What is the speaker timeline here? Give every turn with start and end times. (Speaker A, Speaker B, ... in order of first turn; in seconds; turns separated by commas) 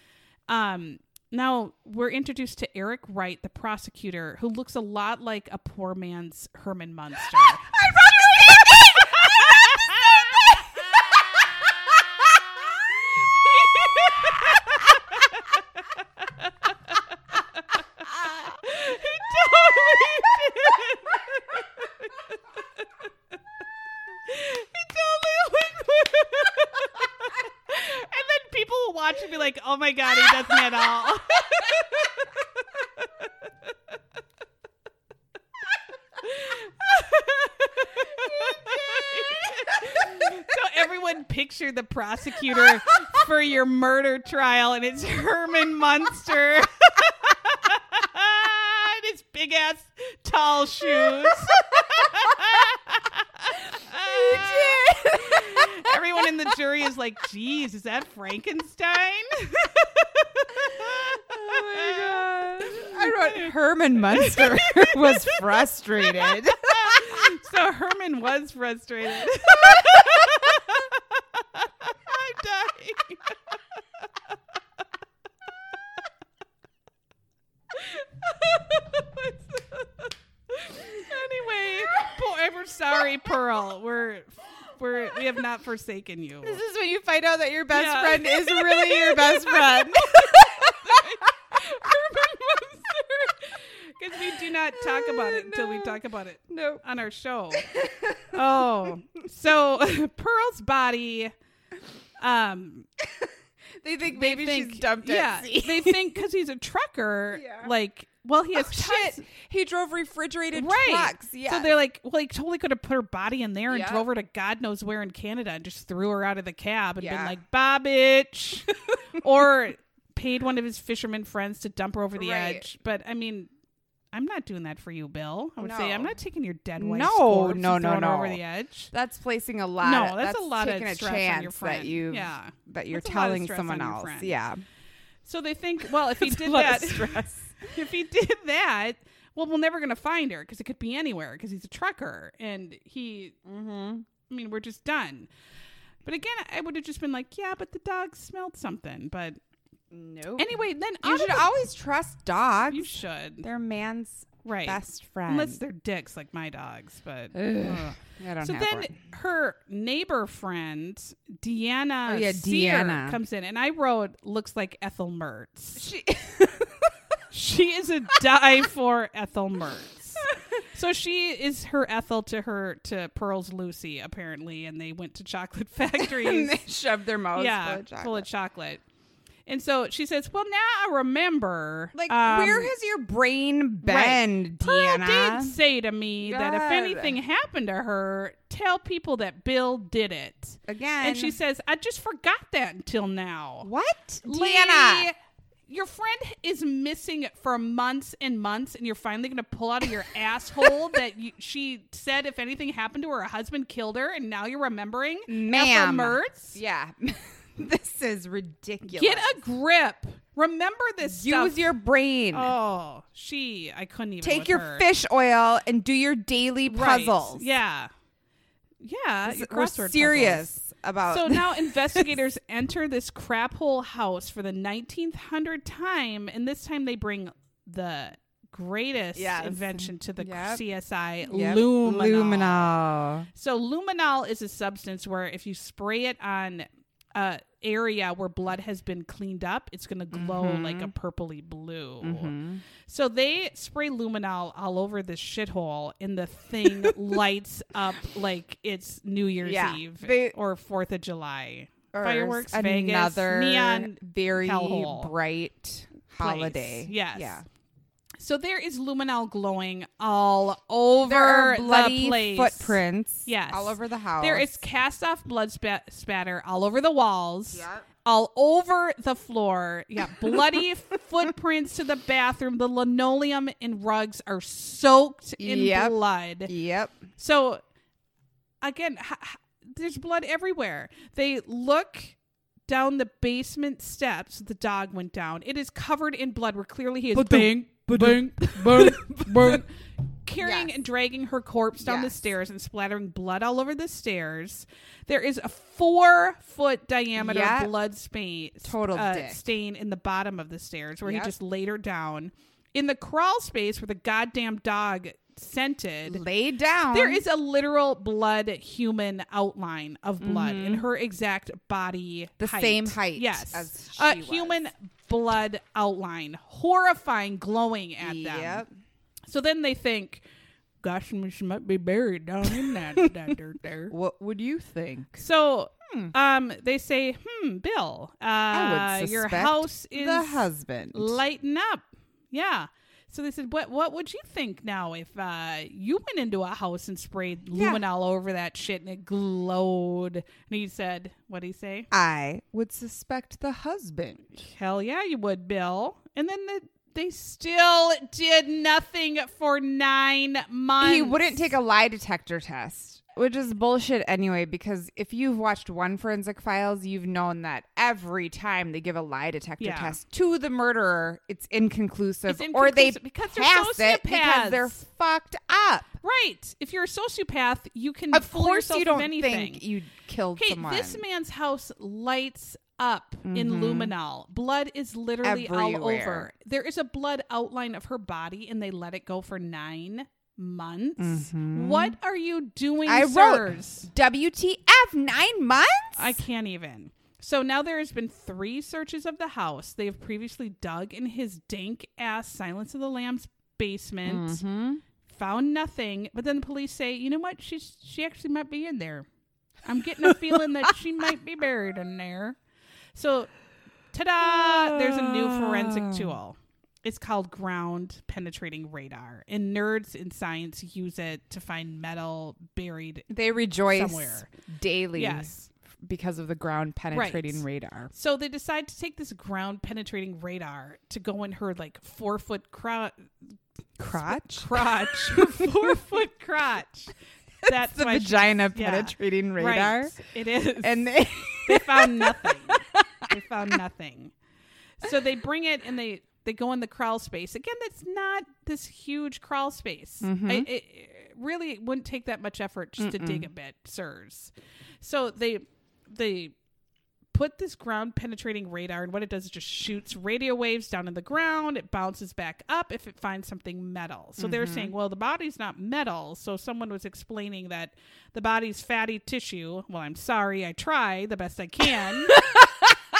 Speaker A: 0.5-11.7, Speaker B: 7.8-12.0, Speaker A: 13.2-16.5, Speaker A: 17.6-22.9, Speaker B: 18.1-18.4, Speaker A: 24.2-33.1, Speaker A: 36.2-65.4, Speaker B: 38.0-40.4, Speaker B: 50.9-52.4, Speaker B: 54.0-56.0, Speaker B: 60.7-67.3, Speaker A: 66.0-73.5, Speaker B: 69.6-70.4, Speaker A: 77.7-86.6, Speaker B: 86.4-93.3, Speaker A: 87.7-101.3, Speaker B: 94.2-96.8, Speaker B: 97.6-98.6, Speaker A: 102.2-102.9, Speaker B: 103.8-106.2, Speaker A: 104.1-109.3, Speaker B: 107.3-107.7, Speaker B: 108.5-111.7, Speaker A: 110.5-123.5, Speaker B: 113.7-114.0, Speaker B: 117.0-117.3, Speaker B: 122.2-122.7, Speaker A: 124.1-128.9, Speaker B: 125.6-126.2, Speaker B: 126.8-128.4, Speaker B: 128.9-134.6, Speaker A: 129.8-134.4, Speaker A: 135.2-143.4, Speaker B: 136.2-137.6, Speaker B: 143.4-144.1, Speaker A: 144.3-145.3, Speaker A: 146.0-149.4, Speaker B: 149.9-155.6, Speaker A: 150.4-151.5, Speaker A: 152.7-153.5, Speaker A: 154.4-165.9, Speaker B: 157.3-158.9, Speaker B: 162.1-163.2, Speaker B: 165.8-166.9, Speaker A: 167.3-176.6, Speaker B: 176.0-178.3, Speaker A: 177.3-178.8, Speaker A: 179.4-182.7, Speaker B: 181.9-185.6, Speaker A: 183.8-193.7, Speaker B: 186.2-187.1, Speaker B: 190.7-191.3, Speaker B: 193.6-195.1, Speaker A: 194.2-195.1, Speaker A: 195.7-206.6, Speaker B: 205.3-209.4, Speaker A: 208.8-211.7, Speaker B: 211.0-212.5, Speaker A: 212.3-214.9, Speaker B: 214.2-217.5, Speaker A: 216.7-217.9, Speaker A: 218.8-220.5, Speaker B: 219.2-222.2, Speaker A: 221.0-232.7, Speaker B: 229.1-230.6, Speaker B: 231.2-233.3, Speaker A: 233.3-242.3, Speaker B: 240.1-240.9, Speaker B: 242.0-242.6, Speaker A: 242.8-255.1, Speaker B: 249.4-250.3, Speaker B: 251.9-257.4, Speaker A: 256.2-257.4, Speaker A: 258.2-276.5, Speaker B: 261.0-264.6, Speaker B: 267.5-267.8, Speaker B: 270.1-270.6, Speaker B: 275.4-277.0, Speaker A: 277.2-277.6, Speaker A: 278.6-289.7, Speaker B: 287.1-289.6, Speaker A: 290.2-306.2, Speaker B: 290.4-290.7, Speaker B: 291.8-292.1, Speaker B: 297.1-297.7, Speaker B: 298.6-299.4, Speaker B: 301.0-301.3, Speaker B: 306.1-307.2, Speaker A: 306.9-318.6, Speaker B: 310.2-310.9, Speaker B: 312.4-314.7, Speaker B: 318.0-318.7, Speaker A: 319.3-320.2, Speaker A: 320.8-323.9, Speaker B: 323.9-325.2, Speaker A: 325.1-341.9, Speaker B: 328.5-331.2, Speaker B: 337.5-337.8, Speaker B: 341.9-344.4, Speaker A: 344.4-351.5, Speaker B: 350.8-365.9, Speaker A: 359.6-360.0, Speaker A: 362.3-364.8, Speaker A: 366.0-369.6, Speaker B: 368.1-371.0, Speaker A: 370.4-383.9, Speaker B: 373.2-373.9, Speaker B: 375.2-376.3, Speaker B: 381.0-382.0, Speaker B: 382.8-386.2, Speaker A: 386.0-394.4, Speaker B: 394.0-394.8, Speaker A: 395.1-399.1, Speaker A: 399.6-402.4, Speaker A: 402.9-403.3, Speaker A: 403.9-413.1, Speaker B: 404.2-406.2, Speaker B: 413.1-417.9, Speaker A: 413.6-414.3, Speaker A: 414.9-415.5, Speaker A: 416.9-423.1, Speaker B: 423.8-425.7, Speaker A: 423.8-434.1, Speaker B: 427.4-430.0, Speaker B: 430.6-433.1, Speaker A: 434.8-446.3, Speaker B: 440.0-440.5, Speaker B: 442.8-443.3, Speaker A: 447.1-462.3, Speaker B: 454.2-454.7, Speaker B: 462.1-462.8